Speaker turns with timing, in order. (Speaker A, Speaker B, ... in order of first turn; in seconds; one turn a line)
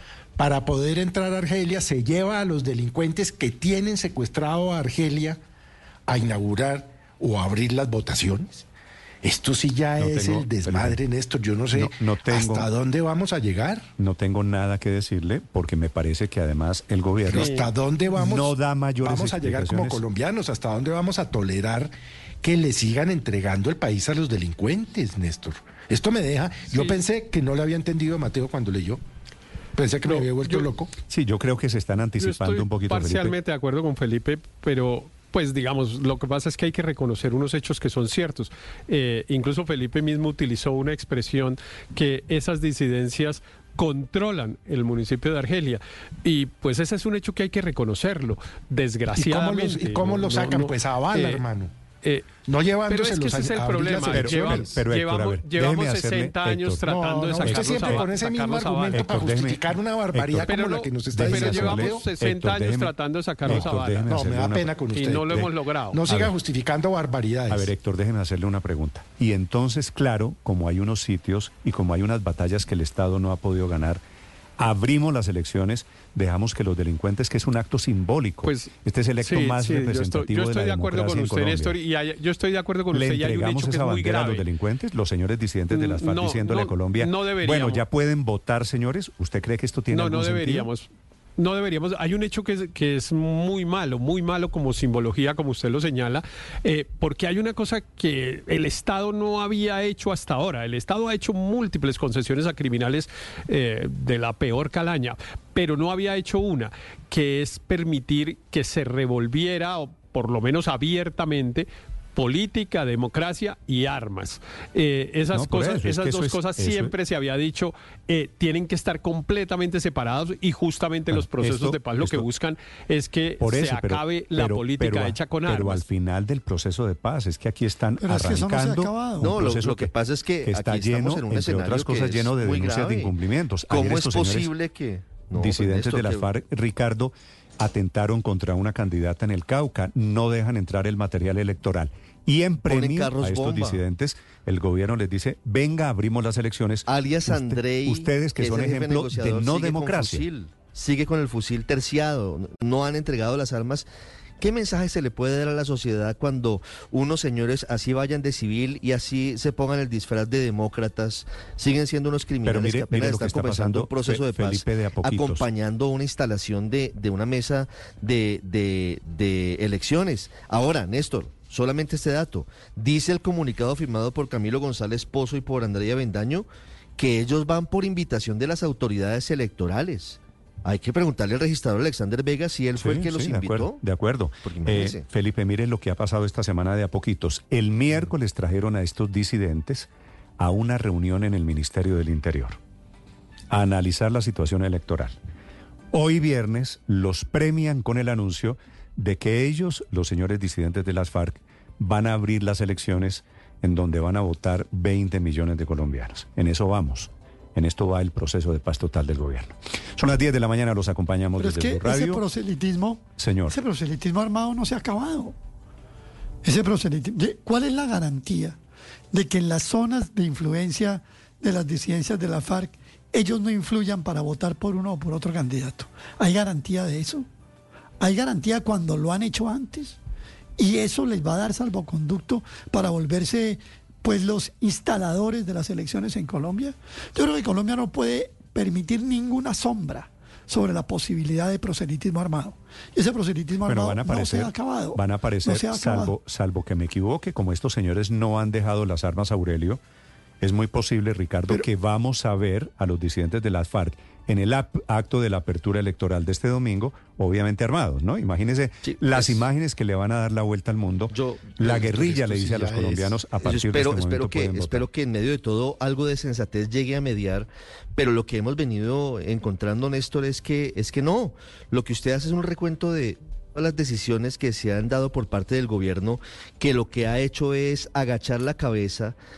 Speaker A: 0.4-5.4
Speaker A: 6.1-8.7
Speaker A: 9.2-13.9
Speaker B: 10.0-11.0
Speaker B: 11.7-12.7
Speaker B: 14.0-17.5
Speaker A: 17.3-29.0
Speaker C: 17.3-17.6
Speaker B: 18.2-20.0
Speaker A: 29.7-30.9
Speaker C: 30.1-30.7
Speaker B: 31.1-33.3
Speaker C: 32.2-51.4
Speaker A: 49.1-51.7
Speaker C: 52.0-52.3
Speaker A: 52.4-54.8
Speaker C: 52.9-59.1
Speaker B: 54.1-56.9
Speaker A: 56.9-62.1
Speaker B: 57.4-58.0
Speaker B: 58.9-59.6
Speaker B: 60.1-60.5
Speaker C: 60.4-64.1
Speaker B: 61.1-62.9
Speaker B: 63.4-65.5
Speaker A: 63.5-67.7
Speaker C: 64.9-66.0
Speaker B: 66.1-66.3
Speaker B: 67.5-74.0
Speaker B: 74.6-81.8
Speaker C: 78.4-84.5
Speaker B: 82.9-90.7
Speaker C: 85.7-87.8
Speaker C: 89.9-125.8
Speaker B: 115.3-116.9
Speaker B: 121.1-122.3
Speaker B: 123.4-134.5
Speaker D: 128.0-129.3
Speaker E: 129.2-133.1
Speaker E: 133.7-136.3
Speaker B: 135.3-150.3
Speaker E: 142.7-143.8
Speaker E: 146.9-153.9
Speaker E: 154.4-183.8
Speaker B: 162.4-165.4
Speaker B: 182.8-192.6
Speaker E: 184.4-185.0
Speaker B: 193.5-195.1
Speaker B: 195.9-212.2
Speaker D: 211.4-215.3
Speaker B: 213.2-213.6
Speaker D: 216.4-218.6
Speaker D: 219.1-227.2
Speaker D: 228.0-229.9
Speaker D: 230.6-246.1
Speaker B: 243.6-249.8
Speaker B: 250.4-264.9
Speaker E: 258.8-259.4
Speaker E: 261.1-261.6
Speaker A: 261.6-263.2
Speaker E: 263.4-279.1